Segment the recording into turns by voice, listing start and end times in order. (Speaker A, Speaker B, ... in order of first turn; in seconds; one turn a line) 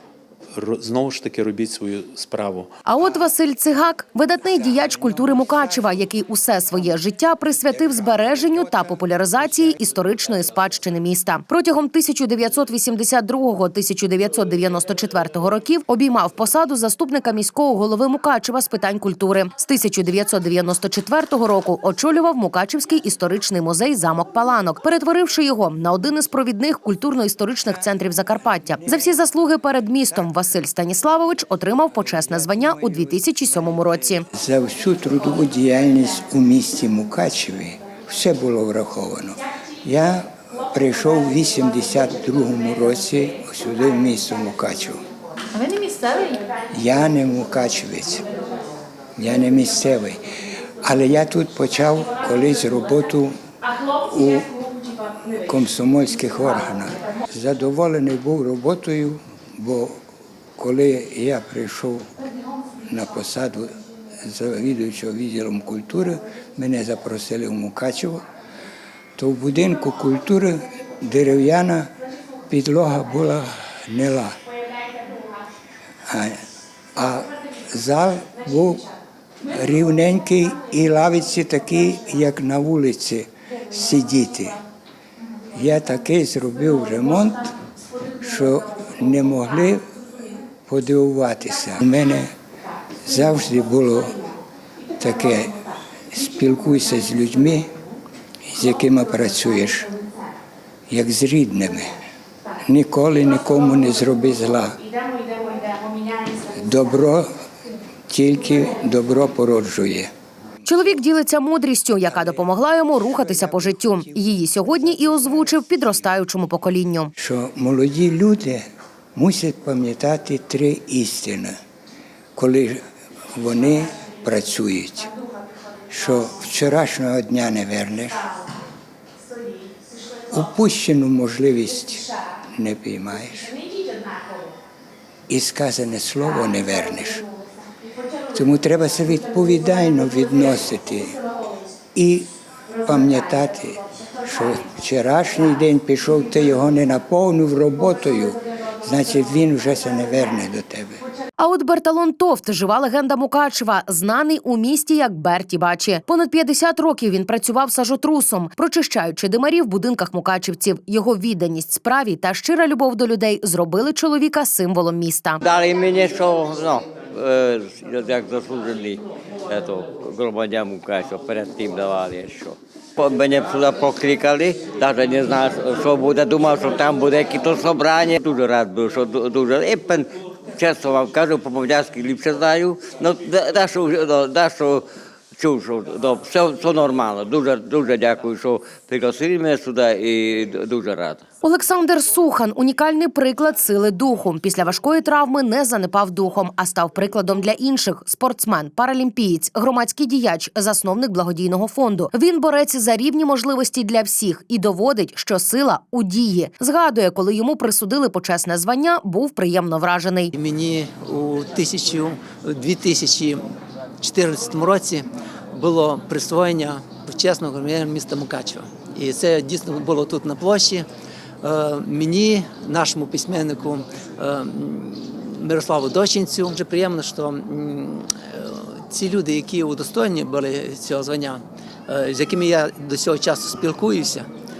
Speaker A: 0.5-2.7
Speaker B: 2.9-34.3
Speaker C: 34.3-45.0
Speaker C: 46.7-48.3
Speaker C: 49.2-50.2
Speaker C: 50.8-53.4
Speaker C: 54.0-54.5
Speaker C: 55.4-60.0
Speaker C: 60.6-62.1
Speaker C: 62.9-68.2
Speaker C: 69.2-71.9
Speaker C: 72.5-74.4
Speaker C: 76.1-76.4
Speaker C: 77.0-78.9
Speaker C: 79.5-84.6
Speaker C: 85.5-87.5
Speaker C: 88.2-89.9
Speaker C: 90.7-92.3
Speaker C: 93.0-94.2
Speaker C: 95.0-95.6
Speaker C: 96.1-97.7
Speaker C: 98.5-99.9
Speaker C: 100.9-102.0
Speaker C: 102.7-104.8
Speaker C: 106.5-107.3
Speaker C: 108.1-110.1
Speaker B: 110.7-117.1
Speaker C: 113.2-115.3
Speaker C: 117.2-118.6
Speaker C: 119.2-121.5
Speaker C: 122.4-122.8
Speaker C: 123.3-125.1
Speaker C: 125.9-128.3
Speaker C: 130.3-133.6
Speaker C: 135.3-137.3
Speaker C: 138.3-141.2
Speaker C: 141.9-142.3
Speaker C: 142.8-151.0
Speaker B: 151.4-165.4
Speaker D: 165.4-191.2
Speaker B: 191.4-210.3
Speaker E: 210.4-213.4
Speaker E: 214.0-220.9
Speaker E: 221.4-234.3